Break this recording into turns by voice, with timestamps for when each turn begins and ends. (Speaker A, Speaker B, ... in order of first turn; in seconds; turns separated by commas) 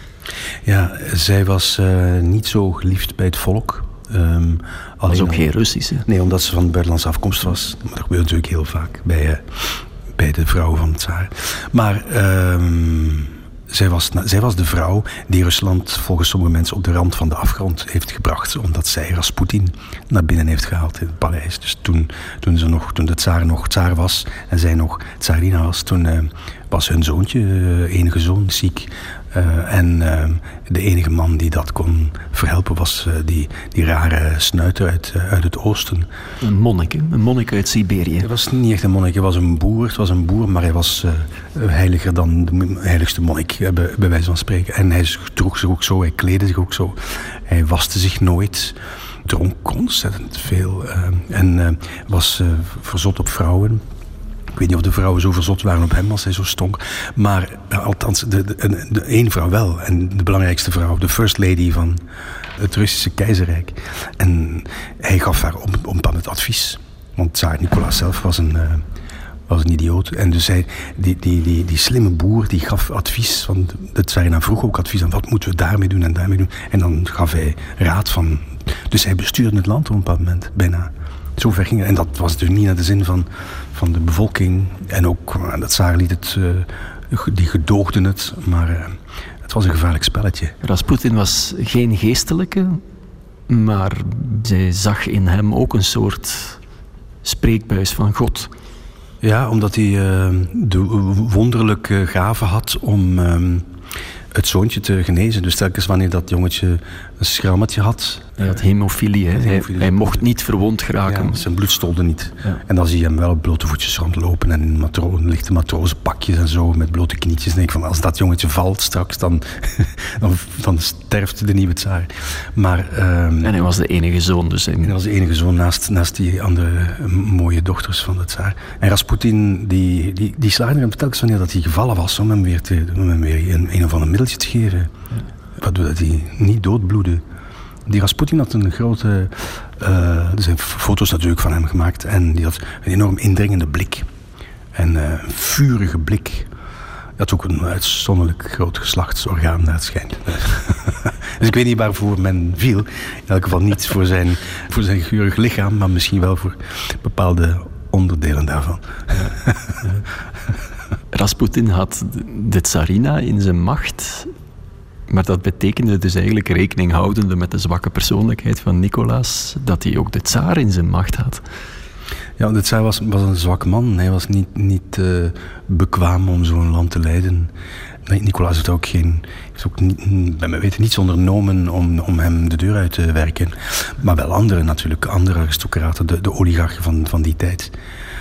Speaker A: 0.7-5.5, Speaker B: 5.1-6.0, Speaker A: 6.0-9.4, Speaker A: 10.1-36.1, Speaker B: 36.4-38.3, Speaker A: 38.2-53.8, Speaker A: 54.5-62.0, Speaker A: 62.6-68.8, Speaker A: 69.5-90.5, Speaker B: 90.6-92.8, Speaker B: 93.5-96.6, Speaker B: 97.2-98.5, Speaker A: 99.2-103.7, Speaker A: 104.3-108.4, Speaker B: 108.4-111.4, Speaker A: 109.4-110.2, Speaker A: 111.1-123.5, Speaker B: 123.4-125.0, Speaker A: 124.8-134.9, Speaker A: 135.6-137.2, Speaker A: 137.9-144.1, Speaker A: 144.7-146.5, Speaker A: 147.2-159.8, Speaker B: 161.1-164.3, Speaker B: 165.1-171.4, Speaker A: 172.4-177.5, Speaker A: 178.1-187.7